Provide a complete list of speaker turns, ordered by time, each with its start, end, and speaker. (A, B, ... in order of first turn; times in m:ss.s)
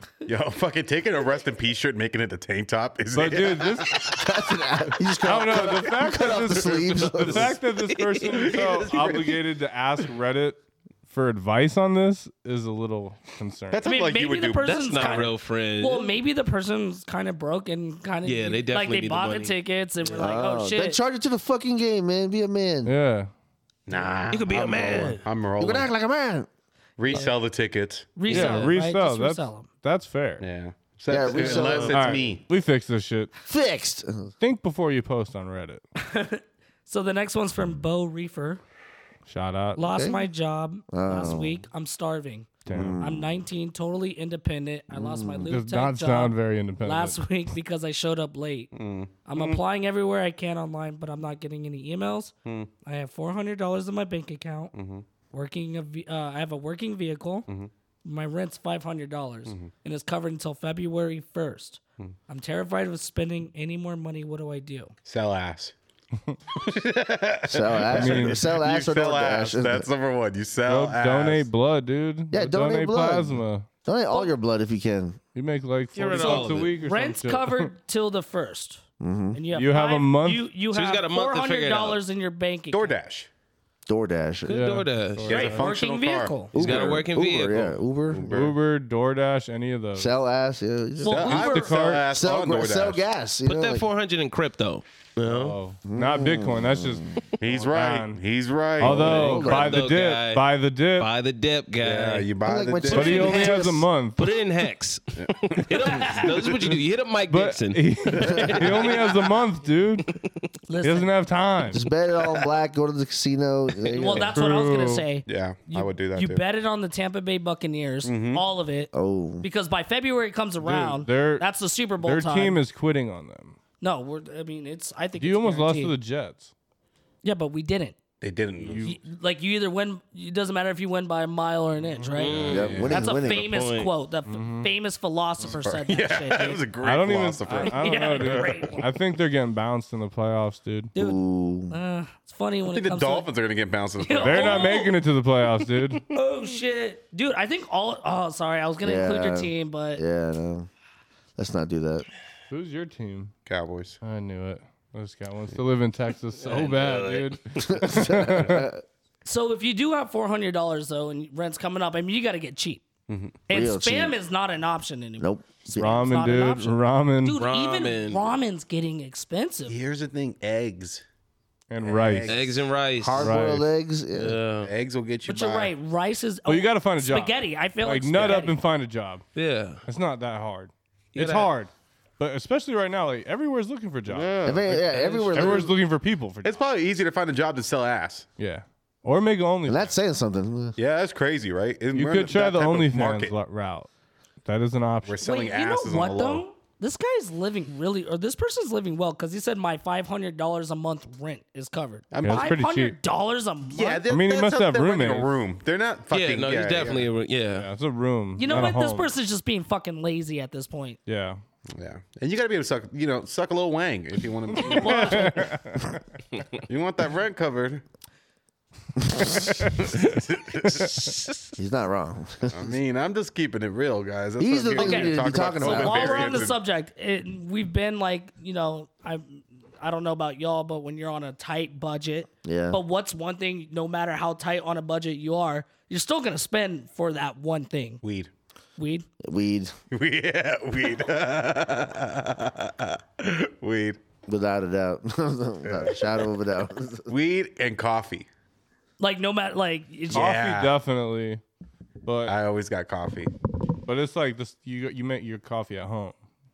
0:00.2-0:04.2 A
0:03.1-0:04.2 B
0:04.0-0:07.6 C
0:05.2-0:13.9 B
0:07.2-0:07.5 A
0:07.8-0:08.6 D
0:08.3-0:09.4 A
0:13.7-0:15.3 A
0:13.8-0:21.0 E
0:14.6-0:16.1 D
0:18.2-0:19.6 D
0:20.2-0:22.9 C
0:22.8-0:23.3 B
0:23.9-0:25.9 A
0:24.3-0:25.2 D
0:25.6-0:26.5 C
0:27.0-0:28.2 A
0:28.2-0:29.7 E
0:28.2-0:30.4 B
0:28.3-0:28.7 D
0:30.4-0:32.4 A
0:31.1-0:32.0 C
0:31.3-0:32.0 D
0:31.9-0:33.3 B
0:33.4-0:34.3 C
0:34.4-0:35.8 B
0:36.0-0:38.6 E
0:39.3-0:39.9 B
0:39.8-0:48.7 E
0:39.9-0:40.3 C
0:40.9-0:41.6 C
0:42.6-0:43.0 B
0:42.7-0:43.3 C
0:44.9-0:45.5 C
0:45.5-0:47.2 B
0:48.7-0:49.6 A
0:49.2-0:52.3 E
0:52.4-0:52.7 A
0:52.8-0:54.7 E
0:54.7-0:55.0 A
0:55.3-0:57.5 E
0:58.0-1:04.9 E
1:05.0-1:05.7 A
1:06.5-1:11.5 A
1:07.5-1:09.9 C
1:07.9-1:08.4 B
1:10.6-1:13.7 B
1:12.3-1:15.2 C
1:15.3-1:17.7 B
1:15.9-1:16.7 D
1:16.2-1:18.8 E
1:19.0-1:19.4 C
1:19.3-1:23.0 E
1:19.5-1:20.5 B
1:20.7-1:22.0 D
1:22.7-1:23.3 A
1:23.9-1:24.6 C
1:24.5-1:25.4 D
1:24.5-1:25.6 B
1:25.3-1:27.0 A
1:25.3-1:26.5 E
1:26.5-1:27.8 D
1:26.5-1:28.4 C
1:28.1-1:28.6 A
1:28.3-1:30.1 B
1:30.0-1:31.5 C
1:31.0-1:31.8 E
1:31.0-1:33.0 A
1:31.5-1:32.1 B
1:32.1-1:33.8 C
1:33.4-1:35.6 D
1:35.2-1:38.2 B
1:35.8-1:37.2 C
1:37.4-1:39.5 A
1:38.8-1:41.1 B
1:38.8-1:39.8 C
1:39.3-1:40.4 D
1:41.0-1:42.3 D
1:41.8-1:43.6 A
1:42.4-1:43.9 C
1:42.9-1:44.3 B
1:44.2-1:49.2 D
1:45.2-1:45.6 A
1:45.7-1:46.3 E
1:47.3-1:50.1 B
1:48.1-1:49.0 A
1:50.7-1:51.1 E
1:50.8-1:51.8 B
1:51.7-1:54.3 C
1:53.9-1:58.9 E
1:54.3-1:55.1 B
1:55.2-1:56.4 A
1:58.0-1:58.4 A
1:58.9-1:59.4 C
1:59.4-2:02.6 E
2:00.6-2:01.5 B
2:02.0-2:03.6 B
2:03.8-2:05.9 E
2:05.2-2:06.5 B
2:07.2-2:08.0 E
2:08.2-2:08.9 A
2:08.6-2:09.0 B
2:08.8-2:16.6 E
2:11.9-2:12.7 B
2:12.2-2:13.9 D
2:12.3-2:13.0 A
2:12.5-2:13.5 C
2:14.3-2:14.7 B
2:15.6-2:18.8 A
2:16.8-2:20.9 B
2:17.6-2:18.8 E
2:20.9-2:21.7 C
2:20.9-2:23.3 E
2:22.7-2:24.8 A
2:24.0-2:25.0 E
2:24.2-2:26.0 B
2:26.1-2:30.0 E
2:28.8-2:30.7 C
2:31.4-2:32.0 C
2:32.5-2:33.3 B
2:33.4-2:34.0 A
2:34.0-2:38.7 B
2:36.4-2:37.4 D
2:37.7-2:38.8 C
2:39.2-2:42.8 E
2:43.1-2:43.4 A
2:43.5-2:49.8 E
2:43.5-2:44.2 C
2:45.2-2:46.1 C
2:45.8-2:47.4 B
2:47.4-2:48.3 D
2:49.7-2:51.0 A
2:51.7-2:52.3 B
2:51.8-2:52.6 A
2:52.3-2:53.3 D
2:53.0-2:54.4 C
2:53.2-2:53.6 B
2:54.2-2:54.7 D
2:54.6-2:55.7 A
2:55.2-2:58.5 E
2:56.4-2:59.2 B
2:59.3-2:59.8 D
2:59.8-3:04.6 B
3:01.1-3:01.5 D
3:04.1-3:05.6 D
3:04.4-3:05.7 C
3:05.3-3:06.5 B
3:06.4-3:08.3 A
3:08.4-3:09.9 B
3:09.7-3:10.8 C
3:10.8-3:13.3 A
3:11.9-3:13.9 B
3:14.4-3:15.2 B
3:15.0-3:16.4 A
3:15.2-3:24.0 E
3:22.1-3:22.6 A
3:22.2-3:23.0 B
3:23.7-3:27.1 A
3:24.1-3:25.3 B
3:26.1-3:27.7 D
3:27.6-3:29.1 B
3:28.4-3:31.0 E
3:31.0-3:31.4 B
3:31.7-3:35.4 A
3:34.5-3:36.0 B
3:34.6-3:35.4 E
3:36.7-3:37.8 A
3:39.2-3:41.0 A
3:39.2-3:40.0 B
3:40.7-3:41.5 D
3:41.6-3:42.8 C
3:42.5-3:46.6 A
3:44.4-3:46.5 C
3:44.7-3:58.0 E
3:52.4-3:52.8 C
3:58.0-3:58.3 A
3:58.8-3:59.0 E
3:59.2-3:59.7 C
3:59.9-4:04.0 A
4:04.2-4:07.1 C
4:05.6-4:06.3 A
4:07.1-4:08.3 A
4:09.0-4:10.3 E
4:10.1-4:10.8 A
4:10.1-4:11.4 B
4:12.0-4:12.3 B
4:12.2-4:13.3 A
4:13.8-4:16.2 B